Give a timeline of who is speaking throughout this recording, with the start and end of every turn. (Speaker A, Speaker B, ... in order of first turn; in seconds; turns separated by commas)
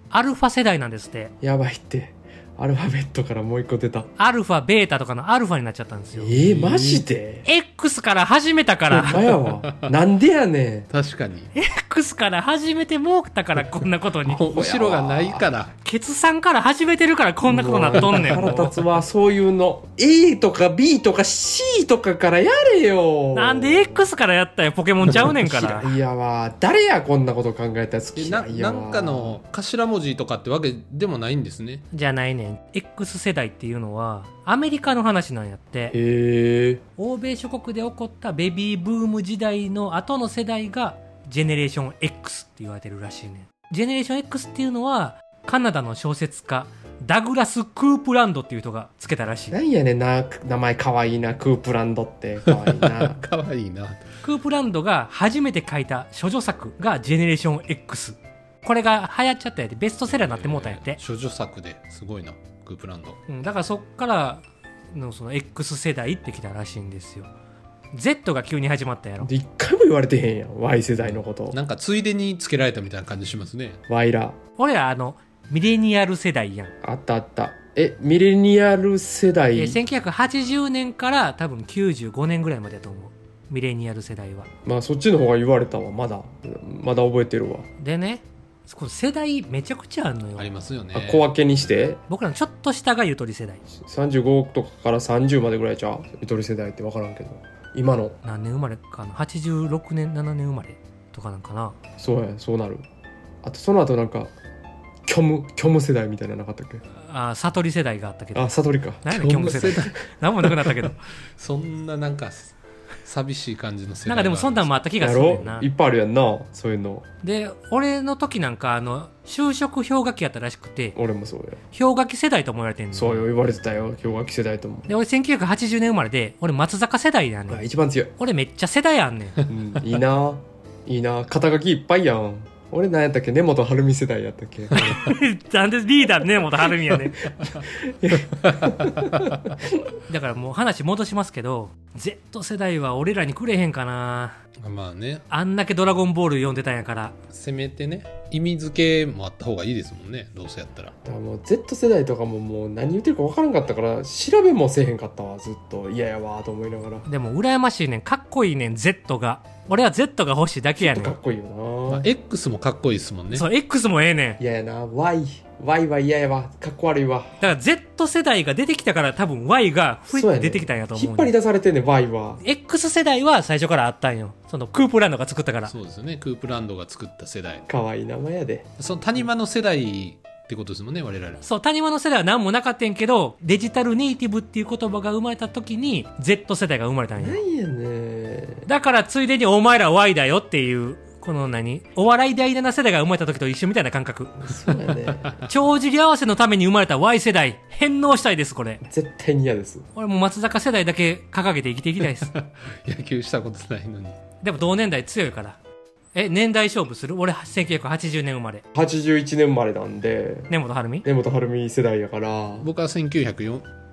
Speaker A: 0.1-1.3, Speaker B: 1.4-4.1, Speaker A: 4.2-6.3, Speaker B: 6.1-7.5, Speaker C: 6.4-7.0, Speaker A: 7.4-9.2, Speaker C: 8.9-9.9, Speaker B: 9.0-10.9, Speaker C: 10.9-11.5, Speaker A: 11.5-14.4, Speaker C: 14.2-15.7, Speaker B: 14.5-15.5, Speaker A: 15.8-18.7, Speaker B: 17.4-24.1, Speaker C: 18.0-18.5, Speaker A: 23.3-25.9, Speaker B: 25.2-29.4, Speaker C: 28.1-31.8, Speaker A: 31.9-36.0, Speaker B: 35.9-36.8, Speaker A: 37.0-49.5, Speaker B: 49.5-53.2, Speaker C: 52.4-54.0, Speaker A: 54.2-61.0, Speaker C: 60.1-63.2, Speaker A: 63.3-67.3, Speaker A: 67.9-69.3, Speaker B: 69.2-71.6, Speaker C: 71.1-73.8, Speaker B: 73.9-74.4, Speaker A: 74.6-76.7, Speaker B: 76.8-79.8, Speaker A: 79.5-84.5, Speaker B: 84.6-87.7, Speaker A: 87.8-90.5, Speaker C: 90.3-91.9, Speaker B: 90.9-92.0, Speaker A: 92.1-93.6, Speaker B: 93.8-98.2, Speaker A: 98.2-101.8, Speaker B: 102.0-102.8, Speaker B: 103.4-104.3, Speaker B: 105.1-106.8, Speaker A: 107.0-108.5, Speaker B: 108.3-109.8, Speaker A: 109.0-111.0, Speaker C: 109.1-110.0, Speaker C: 111.4-112.5, Speaker C: 113.0-114.7, Speaker A: 114.0-115.7, Speaker B: 115.0-117.0, Speaker A: 117.2-121.0, Speaker B: 121.0-121.6, Speaker A: 121.7-123.3, Speaker B: 122.9-124.9, Speaker A: 124.9-127.6, Speaker B: 127.5-128.1, Speaker A: 128.2-129.4, Speaker B: 129.5-135.0, Speaker A: 134.7-137.5, Speaker B: 137.6-139.5, Speaker C: 138.4-139.4, Speaker A: 140.1-144.3, Speaker C: 144.6-145.2, Speaker A: 145.3-147.2, Speaker C: 147.3-150.9, Speaker B: 151.0-157.1, Speaker A: 157.1-161.2, Speaker B: 160.8-162.1, Speaker C: 161.9-163.5, Speaker A: 163.3-164.4, Speaker B: 164.4-167.4, Speaker A: 167.4-171.3, Speaker B: 170.1-172.4, Speaker A: 172.4-175.7, Speaker C: 175.6-177.6, Speaker B: 177.7-178.7, Speaker C: 178.8-181.4, Speaker A: 181.4-187.4, Speaker B: 187.2-188.7, Speaker A: 188.7-194.5, Speaker B: 194.4-195.4, Speaker C: 194.8-195.4, Speaker A: 195.4-198.8, Speaker B: 198.8-199.8, Speaker A: 199.9-202.3, Speaker C: 202.0-204.2, Speaker A: 204.4-205.6, Speaker A: 206.1-208.6, Speaker B: 208.7-210.5, Speaker A: 210.5-211.1, Speaker B: 211.0-212.7, Speaker C: 212.6-213.7